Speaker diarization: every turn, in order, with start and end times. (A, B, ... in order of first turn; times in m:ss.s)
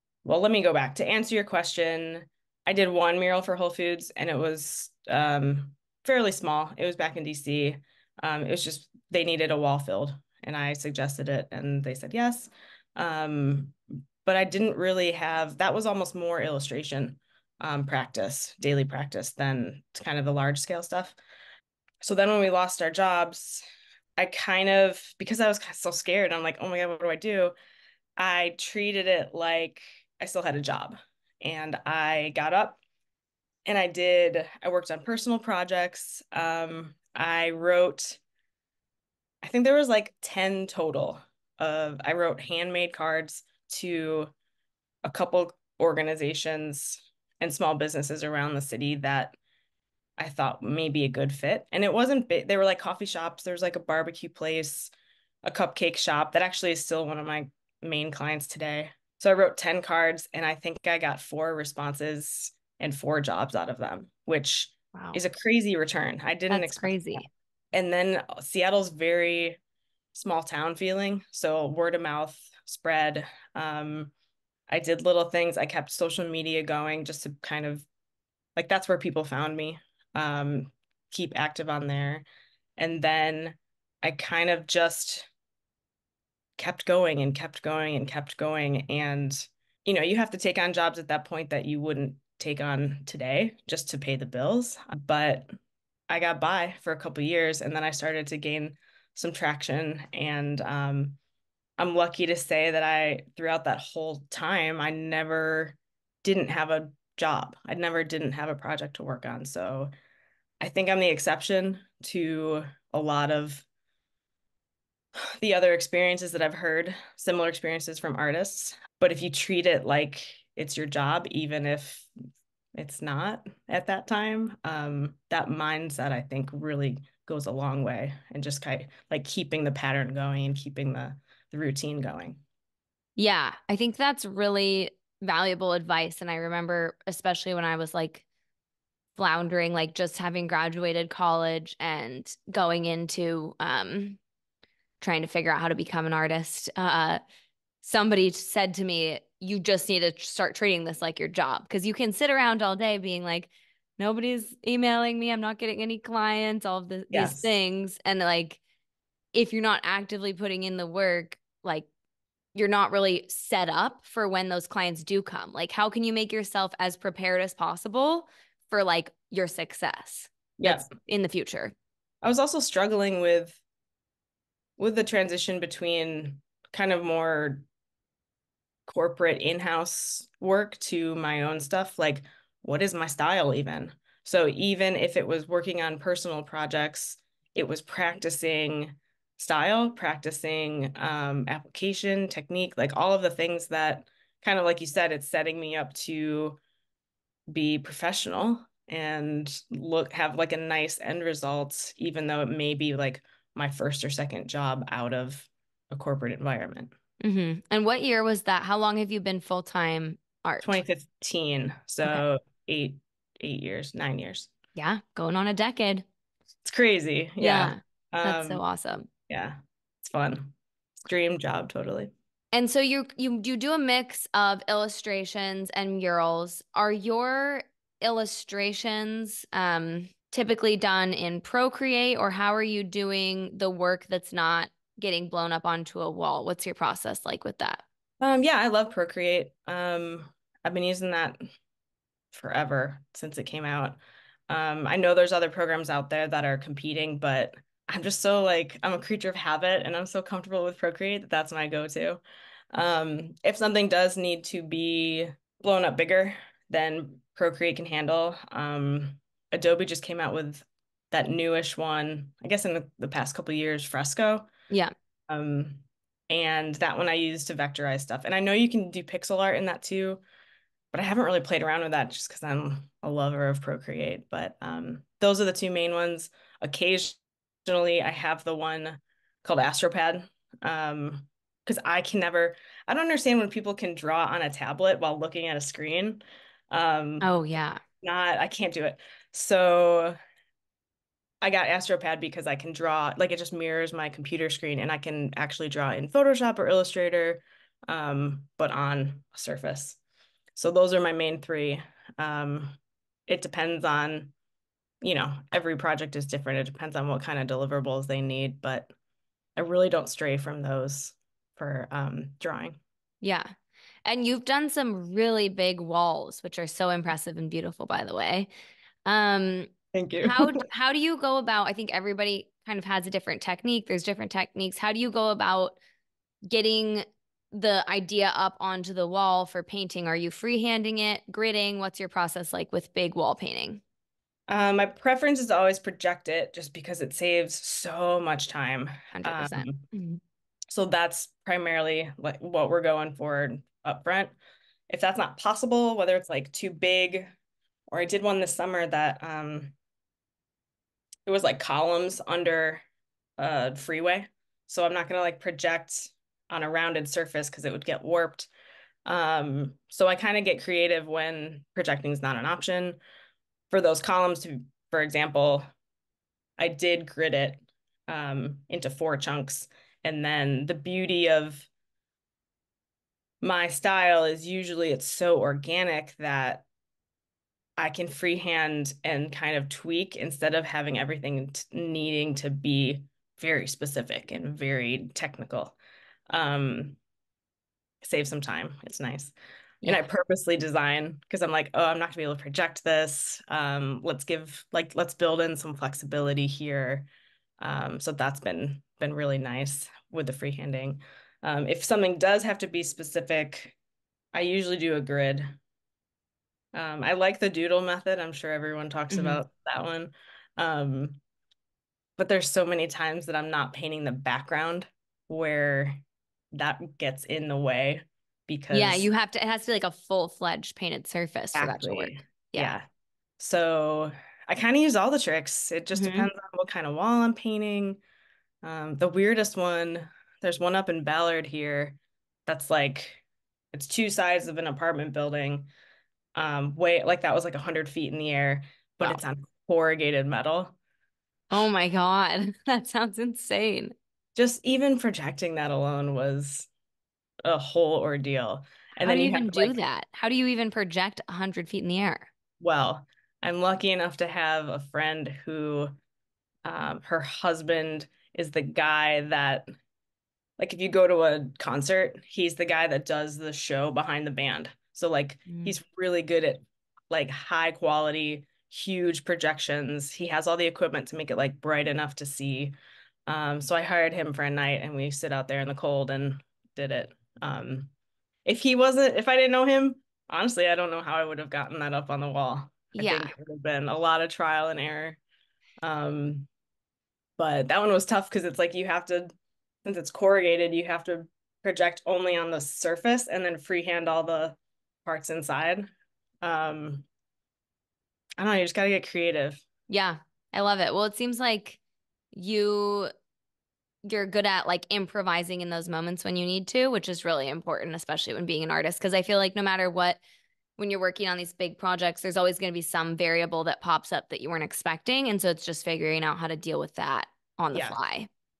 0:00.2-0:21.2 A
0:22.0-0:23.6 A
0:24.2-0:27.5 A
0:28.2-0:32.8 A
0:33.6-0:38.2 A
0:39.4-0:44.3 A
0:45.0-0:49.4 A
0:50.2-0:54.9 A
0:55.4-1:09.6 A
1:04.9-1:05.2 B
1:06.5-1:07.3 B
1:10.1-1:14.1 A
1:14.7-1:17.9 A
1:18.6-1:22.2 A
1:22.8-1:25.3 A
1:26.6-1:35.5 A
1:36.1-1:41.2 A
1:41.8-1:49.9 A
1:50.6-1:53.6 A
1:55.4-2:02.1 A
2:02.7-2:12.4 A
2:13.2-2:18.2 B
2:19.2-2:24.2 B
2:25.0-2:27.2 B
2:27.8-2:38.6 B
2:37.1-2:37.5 A
2:39.3-2:41.9 B
2:42.5-2:51.7 B
2:50.6-2:50.9 A
2:52.2-2:53.6 A
2:54.8-2:57.7 A
2:58.9-3:16.6 A
3:17.5-3:26.9 A
3:27.2-3:30.8 B
3:30.6-3:34.5 A
3:34.7-3:36.0 B
3:36.6-3:38.6 A
3:37.4-3:39.1 B
3:39.3-3:42.1 A
3:42.5-3:57.8 B
3:58.2-4:01.4 A
4:02.3-4:12.2 A
4:12.7-4:24.5 A
4:25.3-4:30.2 A
4:30.9-4:47.3 A
4:47.2-4:47.8 B
4:48.0-4:50.1 A
4:51.4-5:00.0 A
5:00.5-5:04.3 A
5:05.0-5:08.9 A
5:09.6-5:12.8 A
5:13.2-5:13.5 B
5:14.0-5:18.5 B
5:19.0-5:19.7 B
5:19.9-5:20.6 A
5:20.2-5:25.8 B
5:26.5-5:33.8 B
5:34.5-5:39.8 A
5:39.1-5:40.2 B
5:40.7-5:44.3 A
5:44.9-5:47.3 A
5:47.9-5:49.7 A
5:51.2-5:52.8 A
5:53.4-5:58.5 A
5:59.0-6:03.0 A
6:03.7-6:05.6 A
6:06.6-6:11.7 A
6:13.4-6:16.6 A
6:17.8-6:25.8 A
6:26.3-6:27.0 A
6:28.0-6:37.1 A
6:37.6-6:43.8 A
6:44.3-6:45.6 A
6:46.7-6:51.2 A
6:49.1-6:49.4 B
6:52.2-6:56.0 A
6:56.5-6:59.1 A
6:58.7-7:02.8 B
7:01.5-7:02.9 A
7:03.4-7:08.0 A
7:05.9-7:06.3 B
7:08.6-7:15.7 A
7:16.4-7:20.8 A
7:21.5-7:23.9 B
7:24.4-7:26.7 A
7:27.4-7:29.8 A
7:29.0-7:32.3 B
7:32.6-7:36.0 A
7:36.6-7:39.7 A
7:40.6-7:52.7 A
7:45.5-7:45.8 B
7:53.3-7:57.9 A
7:58.4-8:05.2 A
8:02.9-8:03.3 B
8:05.8-8:06.5 A
8:07.4-8:09.3 A
8:09.8-8:15.9 A
8:16.4-8:17.0 A
8:18.4-8:19.6 A
8:19.9-8:21.8 B
8:22.3-8:23.1 B
8:24.0-8:30.2 B
8:30.8-8:38.3 B
8:37.7-8:38.0 A